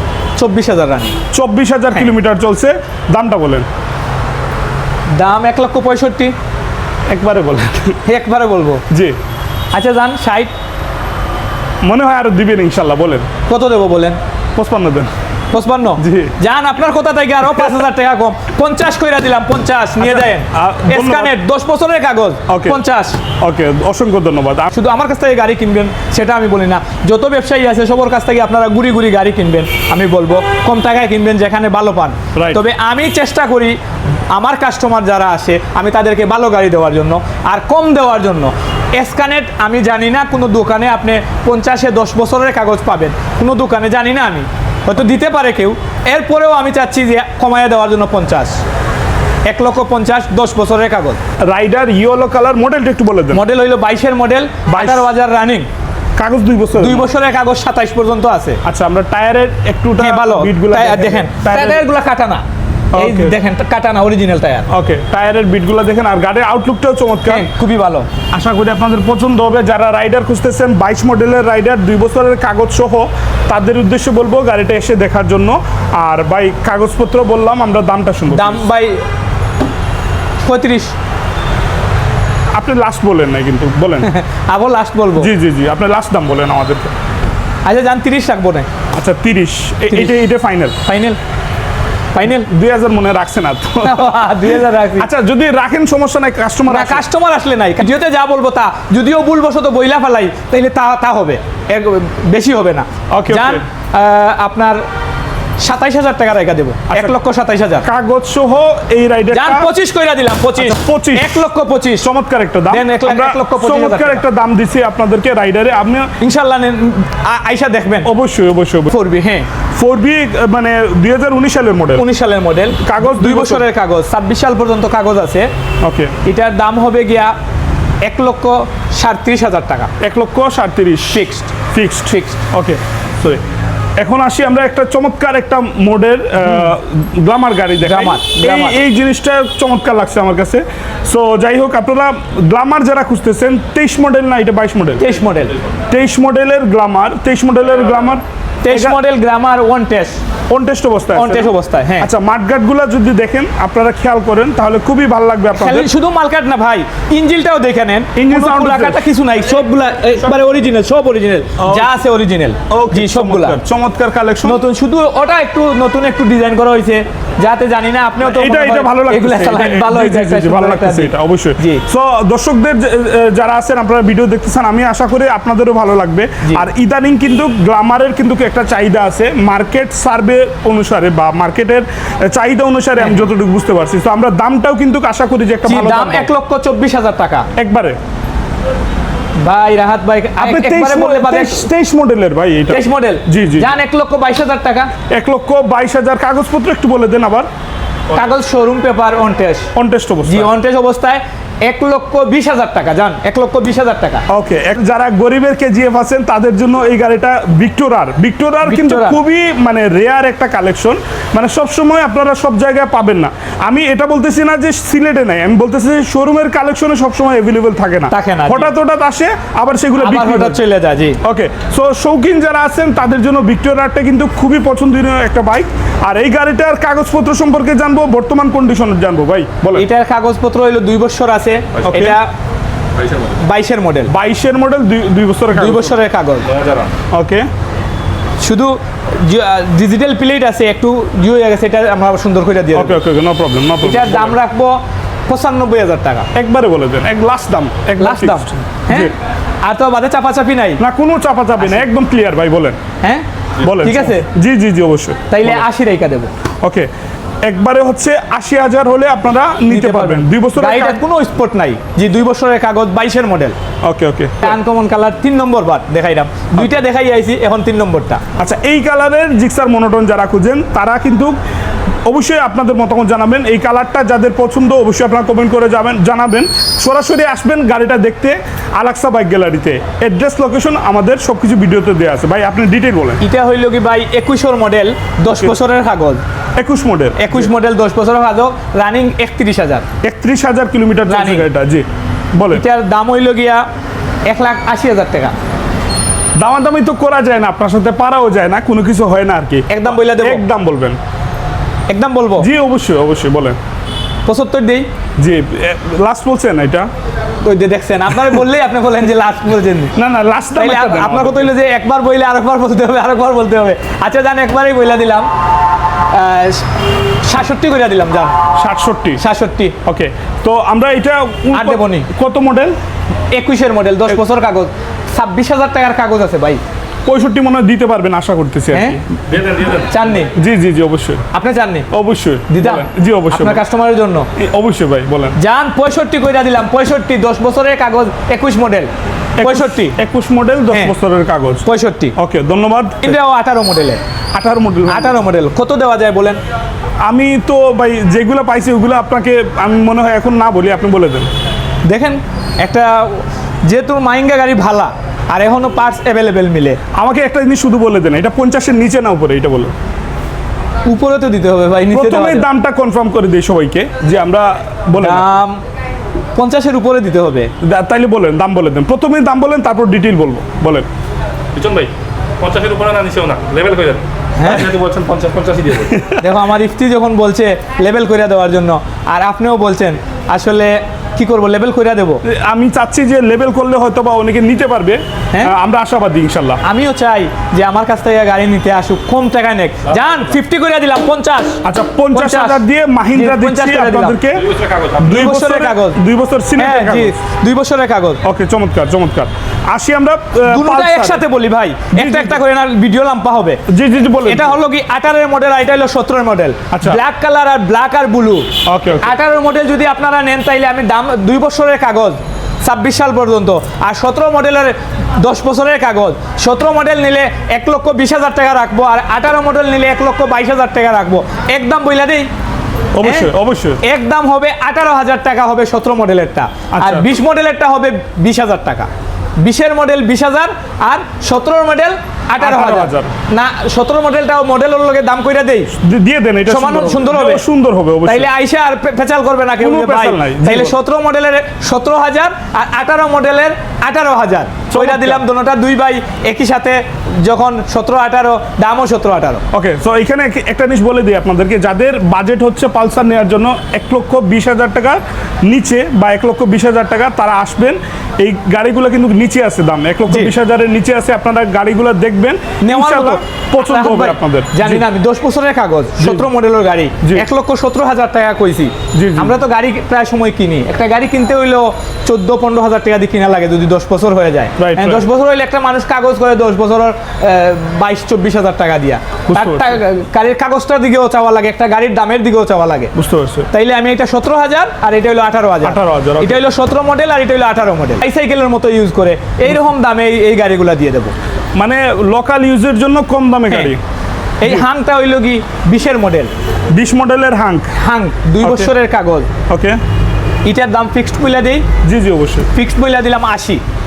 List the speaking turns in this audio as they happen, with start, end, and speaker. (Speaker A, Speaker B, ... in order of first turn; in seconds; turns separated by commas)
Speaker A: 0.3-1.1, Speaker B: 1.3-3.7, Speaker A: 5.1-6.3, Speaker B: 7.1-8.0, Speaker A: 8.1-8.8, Speaker B: 8.9-9.2, Speaker A: 9.7-10.5, Speaker B: 11.8-13.3, Speaker A: 13.5-14.2, Speaker B: 14.6-15.1, Speaker A: 15.5-23.2, Speaker B: 16.0-16.3, Speaker B: 20.0-21.3, Speaker B: 22.5-22.8, Speaker B: 23.4-24.7, Speaker A: 24.7-33.8, Speaker B: 32.3-32.6, Speaker A: 34.3-48.6, Speaker A: 49.5-51.2, Speaker B: 51.4-53.4, Speaker A: 53.3-55.7, Speaker B: 54.7-55.1, Speaker B: 56.2-57.1, Speaker A: 56.8-58.6, Speaker B: 58.6-61.8, Speaker A: 60.0-62.4, Speaker B: 62.9-63.3, Speaker A: 62.9-64.7, Speaker B: 64.7-67.5, Speaker A: 67.2-68.1, Speaker B: 68.3-78.6, Speaker A: 78.3-79.0, Speaker A: 80.4-80.9, Speaker B: 82.5-84.1, Speaker A: 84.0-85.3, Speaker B: 85.2-86.9, Speaker A: 87.6-88.7, Speaker B: 88.9-90.8, Speaker A: 89.9-90.2, Speaker A: 90.8-91.2, Speaker A: 92.1-92.5, Speaker B: 92.3-97.0, Speaker A: 93.8-95.1, Speaker A: 96.7-104.8, Speaker B: 103.1-103.6, Speaker A: 105.6-107.8, Speaker B: 106.9-107.1, Speaker B: 107.8-109.7, Speaker A: 109.3-112.1, Speaker B: 110.5-111.4, Speaker B: 112.0-116.1, Speaker A: 112.7-114.2, Speaker A: 116.2-118.1, Speaker B: 118.0-118.9, Speaker A: 118.9-119.5, Speaker B: 119.8-122.0, Speaker A: 122.0-125.5, Speaker B: 122.8-123.7, Speaker B: 125.8-126.1, Speaker A: 126.2-127.3, Speaker A: 128.0-129.9, Speaker B: 130.0-131.2, Speaker A: 131.1-131.5, Speaker B: 131.7-133.4, Speaker A: 132.1-132.4, Speaker B: 134.0-145.1, Speaker A: 136.4-136.7, Speaker A: 137.8-138.8, Speaker A: 145.0-145.5, Speaker B: 145.9-149.0, Speaker A: 148.6-150.2, Speaker B: 150.5-155.9, Speaker A: 151.1-152.1, Speaker A: 155.5-163.6, Speaker B: 158.2-159.0, Speaker B: 161.6-161.9, Speaker B: 162.7-164.6, Speaker A: 164.4-171.8, Speaker B: 168.2-186.3, Speaker A: 185.7-187.5, Speaker B: 187.6-188.0, Speaker A: 189.4-191.7, Speaker B: 190.4-193.7, Speaker A: 192.7-194.9, Speaker B: 195.1-197.5, Speaker A: 198.1-199.7, Speaker B: 199.7-200.5, Speaker A: 200.2-204.2, Speaker B: 204.3-220.6, Speaker A: 208.6-209.2, Speaker A: 218.1-218.7, Speaker A: 220.0-221.2, Speaker B: 221.2-229.8, Speaker A: 229.7-232.3, Speaker B: 231.8-232.2, Speaker A: 233.4-234.1, Speaker B: 234.1-236.0, Speaker A: 235.5-236.5, Speaker C: 236.5-236.9, Speaker B: 237.1-237.5, Speaker A: 238.4-243.0, Speaker B: 242.7-244.4, Speaker A: 243.8-246.3, Speaker B: 246.3-249.1, Speaker A: 248.0-249.1, Speaker A: 249.6-250.8, Speaker B: 250.8-252.8, Speaker B: 253.6-255.6, Speaker A: 253.8-254.2, Speaker A: 255.3-256.3, Speaker B: 256.6-256.9, Speaker B: 257.4-261.0, Speaker A: 259.7-263.5, Speaker B: 263.8-264.5, Speaker A: 264.4-268.2, Speaker B: 268.4-271.4, Speaker B: 272.1-283.2, Speaker A: 283.2-286.2, Speaker B: 286.6-287.5, Speaker A: 287.2-289.8, Speaker B: 290.0-292.6, Speaker A: 291.1-291.4, Speaker A: 292.5-293.6, Speaker A: 294.2-295.3, Speaker B: 296.4-301.0, Speaker A: 299.7-300.4, Speaker A: 301.9-302.5, Speaker B: 302.4-303.6, Speaker A: 304.2-304.9, Speaker B: 305.2-306.9, Speaker A: 307.4-309.9, Speaker B: 309.9-311.5, Speaker A: 310.6-315.3, Speaker A: 316.1-316.7, Speaker A: 317.2-318.3, Speaker B: 318.6-319.2, Speaker A: 319.2-319.8, Speaker B: 319.8-322.7, Speaker A: 321.5-322.1, Speaker A: 323.3-326.6, Speaker B: 327.0-329.0, Speaker A: 328.7-329.0, Speaker A: 329.7-330.3, Speaker B: 330.4-331.2, Speaker A: 331.3-331.9, Speaker B: 331.9-333.6, Speaker A: 332.5-334.3, Speaker B: 334.4-335.4, Speaker A: 335.4-338.9, Speaker B: 339.4-341.6, Speaker A: 339.4-340.0, Speaker A: 341.6-342.1, Speaker B: 342.1-343.2, Speaker A: 343.0-344.0, Speaker B: 344.3-345.2, Speaker A: 344.9-346.4, Speaker B: 347.1-351.3, Speaker A: 351.9-356.8, Speaker B: 356.9-359.7, Speaker A: 360.8-362.5, Speaker B: 361.9-365.2, Speaker A: 365.0-365.6, Speaker A: 366.4-367.5, Speaker B: 367.6-370.9, Speaker C: 371.5-376.0, Speaker A: 374.4-374.7, Speaker B: 375.9-376.2, Speaker A: 376.2-382.2, Speaker B: 382.2-386.6, Speaker A: 386.6-391.6, Speaker B: 391.6-397.1, Speaker A: 392.1-392.6, Speaker A: 393.1-394.2, Speaker A: 395.0-396.0, Speaker A: 396.6-398.2, Speaker B: 398.2-401.2, Speaker A: 400.4-403.6, Speaker B: 401.9-402.4, Speaker B: 403.7-404.6, Speaker A: 404.2-408.5, Speaker B: 406.7-407.0, Speaker B: 408.6-409.1, Speaker A: 409.0-422.3, Speaker B: 422.9-423.8, Speaker A: 423.0-423.3, Speaker A: 423.8-428.9, Speaker B: 426.7-427.1, Speaker A: 429.4-435.7, Speaker B: 432.4-433.1, Speaker B: 435.8-438.3, Speaker A: 436.5-437.4, Speaker A: 438.1-449.4, Speaker B: 439.6-440.8, Speaker B: 444.7-445.2, Speaker B: 449.5-464.9, Speaker A: 462.6-482.9, Speaker B: 466.0-466.3, Speaker B: 468.9-469.4, Speaker B: 474.6-475.1, Speaker B: 479.3-479.8, Speaker B: 482.9-483.5, Speaker A: 483.5-491.1, Speaker B: 485.6-486.4, Speaker B: 491.5-493.8, Speaker A: 494.4-496.3, Speaker B: 496.7-497.7, Speaker A: 497.7-499.3, Speaker B: 498.4-498.7, Speaker B: 499.5-499.8, Speaker A: 500.4-501.6, Speaker B: 501.8-502.5, Speaker A: 502.5-503.6